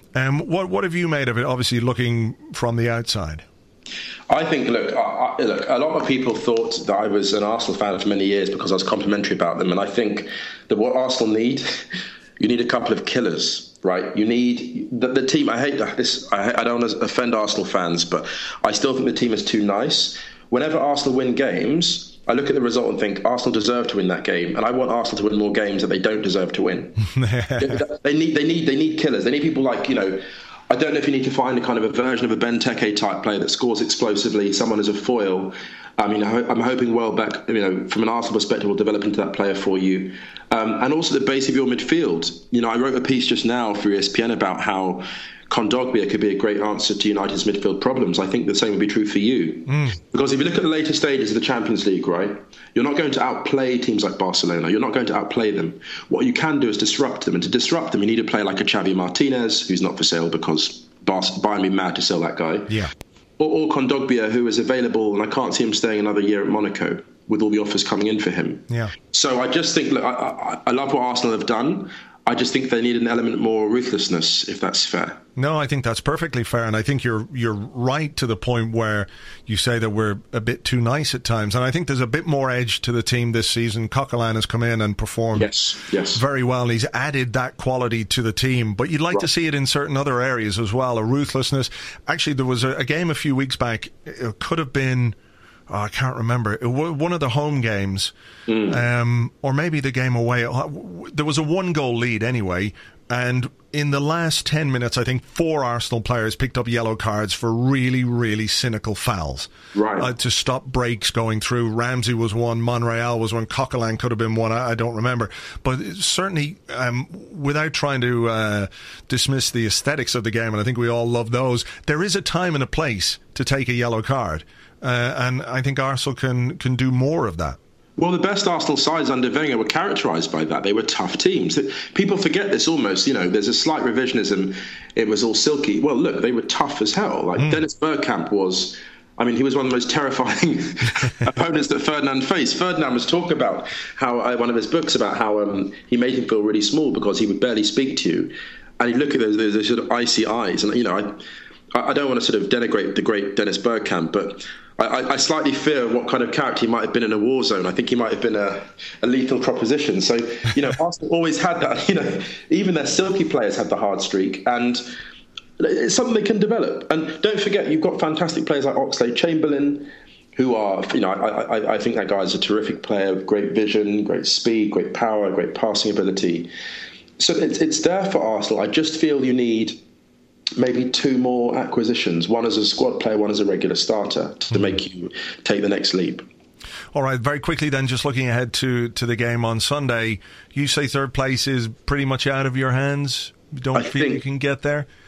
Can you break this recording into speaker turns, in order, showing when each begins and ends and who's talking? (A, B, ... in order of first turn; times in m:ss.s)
0:00.2-0:03.4 A
0:04.3-0:11.8 B
0:12.4-0:27.0 B
0:27.1-0:27.8 A
0:27.6-1:02.8 B
0:49.7-0:50.0 A
1:03.4-1:15.2 B
1:08.7-1:09.0 A
1:15.4-1:25.5 A
1:25.4-1:26.2 B
1:26.1-1:35.2 A
1:35.7-1:38.1 A
1:38.5-1:38.8 B
1:38.7-2:07.6 A
1:49.8-1:50.1 B
2:08.0-2:31.2 B
2:31.7-2:44.8 B
2:45.6-2:56.5 B
2:57.2-2:59.8 B
3:00.6-3:06.3 B
3:06.9-3:14.9 A
3:13.7-3:14.2 B